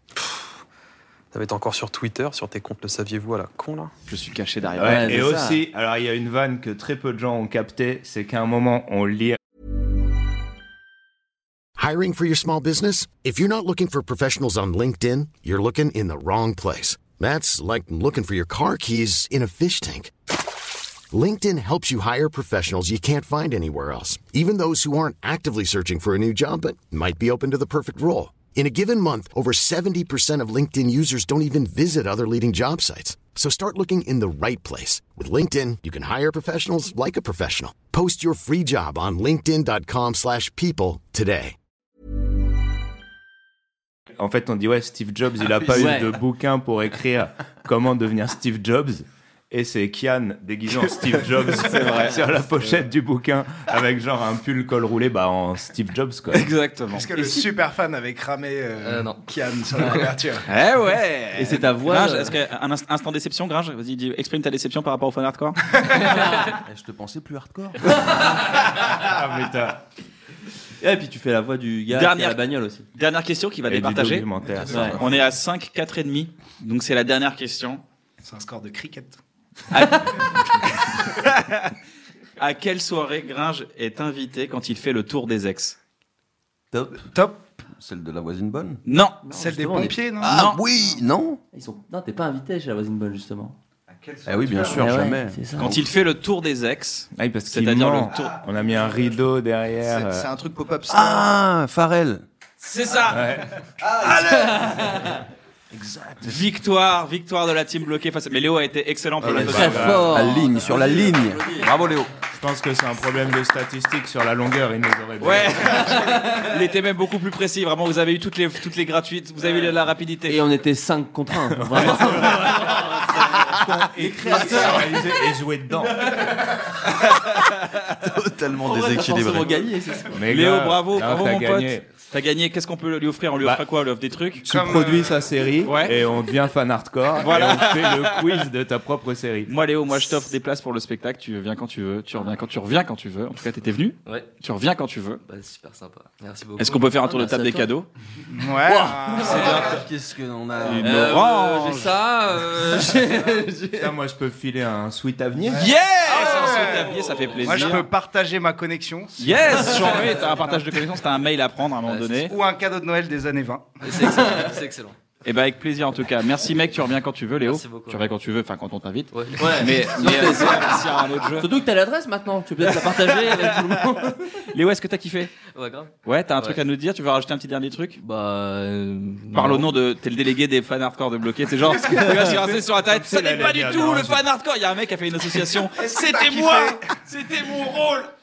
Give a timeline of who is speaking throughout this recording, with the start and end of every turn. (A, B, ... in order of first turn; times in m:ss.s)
0:01.3-0:03.9 A
0:04.1-0:05.2 B
0:04.8-0:09.4 C
0:04.8-0:05.6 D
0:11.8-0:20.1 E
0:21.1-0:41.5 E
0:44.2-0:56.5 C
0:45.7-0:46.1 D
0:51.6-0:52.3 B
0:56.3-0:57.1 B
0:56.9-1:00.4 F
0:58.8-0:59.2 G
0:59.8-1:00.1 G
1:00.4-1:05.6 B
1:01.3-1:02.4 D
1:06.4-1:08.3 H
1:08.5-1:09.8 C
1:10.8-1:12.8 D
1:11.9-1:12.4 B
1:12.9-1:17.8 B
1:13.7-1:15.1 C
1:14.6-1:15.0 H
1:14.7-1:15.0 D
1:18.2-1:19.2 F
1:19.7-1:21.7 B
1:22.4-1:25.8 B
1:26.7-1:27.0 H
1:27.1-1:27.6 F
1:27.7-1:28.8 H
1:28.8-1:29.2 B
1:29.2-1:30.0 D
1:29.3-1:30.4 F
1:30.2-1:30.6 B
1:30.2-1:31.4 H
1:31.5-1:33.6 D
1:33.9-1:34.8 I
1:34.2-1:35.8 H
1:34.7-1:35.8 D
1:35.6-1:38.4 B
1:37.2-1:40.2 C
1:39.8-1:41.4 I
1:40.9-1:42.2 H
1:42.6-1:43.4 B
1:43.1-1:43.5 C
1:44.0-1:44.9 B
1:46.1-1:46.4 C
1:46.2-1:50.0 B
1:49.2-1:50.3 C
1:49.2-1:52.1 H
1:49.2-1:51.7 D
1:52.3-1:56.2 C
1:55.2-2:00.4 B
2:00.3-2:03.2 D
2:01.6-2:06.2 C
2:04.2-2:05.0 D
2:07.8-2:09.6 H
2:08.6-2:10.2 D
2:10.1-2:11.8 C
2:10.3-2:14.4 B
2:14.4-2:15.3 F
2:14.4-2:19.5 C
2:15.6-2:16.0 B
2:17.2-2:18.2 B
2:19.5-2:25.2 B
2:25.2-2:27.7 G
2:26.6-2:27.9 B
2:28.3-2:29.8 F
2:28.7-2:29.6 D
2:29.2-2:31.2 H
2:29.3-2:29.6 B
2:30.6-2:32.0 B
2:30.8-2:33.9 D
2:33.7-2:35.7 C
2:35.5-2:41.0 F
2:35.5-2:37.9 B
2:36.1-2:37.8 G
2:39.2-2:42.3 B
2:39.8-2:40.2 G
2:41.8-2:42.3 G
2:42.3-2:43.8 F
2:43.8-2:45.0 G
2:44.0-2:44.3 D
2:45.2-2:51.5 B
2:47.4-2:48.1 G
2:49.1-2:50.7 G
2:49.4-2:54.3 D
2:54.4-2:55.3 B
2:55.4-2:56.6 G
2:56.0-2:58.0 B
2:58.0-2:59.7 G
2:59.3-3:08.1 B
3:02.2-3:04.2 C
3:05.7-3:07.0 F